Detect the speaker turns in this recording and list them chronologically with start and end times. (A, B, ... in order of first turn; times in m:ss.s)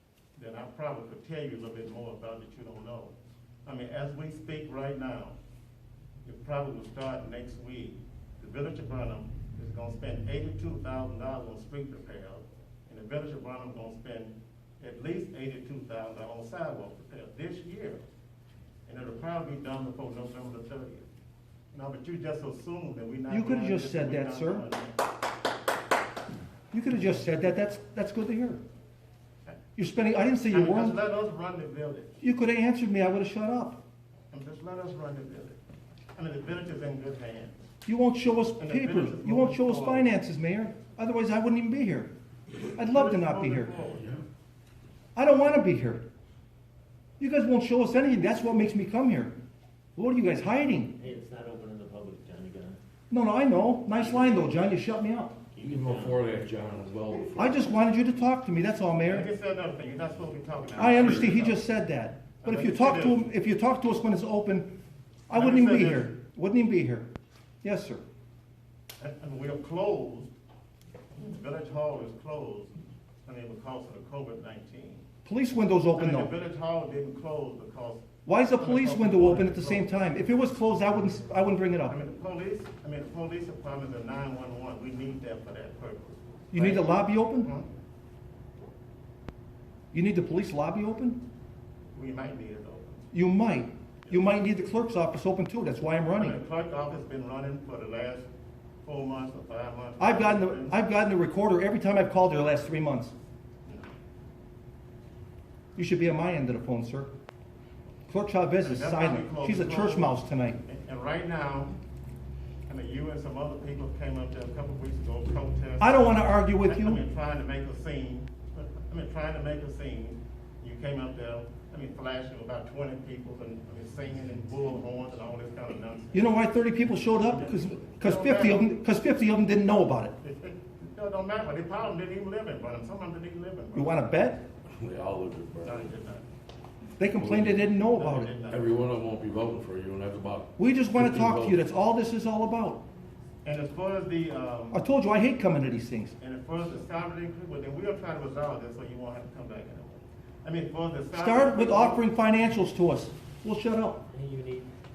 0:00.4-0:05.3 A
0:06.2-0:18.0 A
0:18.8-0:21.1 A
0:21.7-0:25.0 A
0:23.3-0:24.6 B
0:26.7-0:28.6 B
0:29.8-0:31.0 B
0:30.5-0:32.2 A
0:32.2-0:33.8 B
0:34.3-0:35.6 A
0:36.1-0:37.6 A
0:37.8-0:42.1 B
0:38.6-0:40.1 A
0:42.7-0:43.7 B
0:42.9-0:44.2 A
0:44.0-0:44.2 C
0:45.1-0:46.0 B
0:47.2-0:49.3 B
0:50.0-0:51.0 B
0:51.0-0:52.8 D
0:53.1-0:55.4 B
0:55.5-0:56.3 D
0:55.6-0:57.7 C
0:57.4-0:59.3 B
0:59.0-1:01.6 A
1:00.8-1:04.7 B
1:02.4-1:03.2 A
1:05.3-1:07.1 B
1:05.3-1:06.1 A
1:07.6-1:08.0 B
1:09.0-1:10.3 A
1:11.1-1:12.7 A
1:13.2-1:15.0 A
1:15.2-1:16.3 B
1:15.9-1:19.9 A
1:18.2-1:22.0 B
1:21.9-1:27.7 A
1:26.5-1:27.5 B
1:29.9-1:31.2 B
1:31.9-1:33.1 A
1:33.1-1:36.4 B
1:36.1-1:38.3 A
1:38.8-1:40.8 A
1:40.0-1:43.1 B
1:43.6-1:43.9 A
1:45.8-1:47.1 B
1:48.1-1:50.6 B
1:48.6-1:51.7 A
1:52.7-2:06.4 A
1:55.8-1:57.0 B
2:06.1-2:10.1 B
2:07.9-2:08.7 A
2:10.2-2:14.0 A
2:13.7-2:14.4 B
2:14.7-2:15.8 C
2:15.6-2:16.2 A
2:17.0-2:18.3 B
2:17.2-2:17.7 C
2:17.9-2:18.8 A
2:18.5-2:21.6 C
2:20.6-2:22.8 B
2:23.4-2:24.8 A
2:24.7-2:26.1 B
2:26.2-2:32.0 A
2:31.1-2:34.0 B
2:34.1-2:34.7 D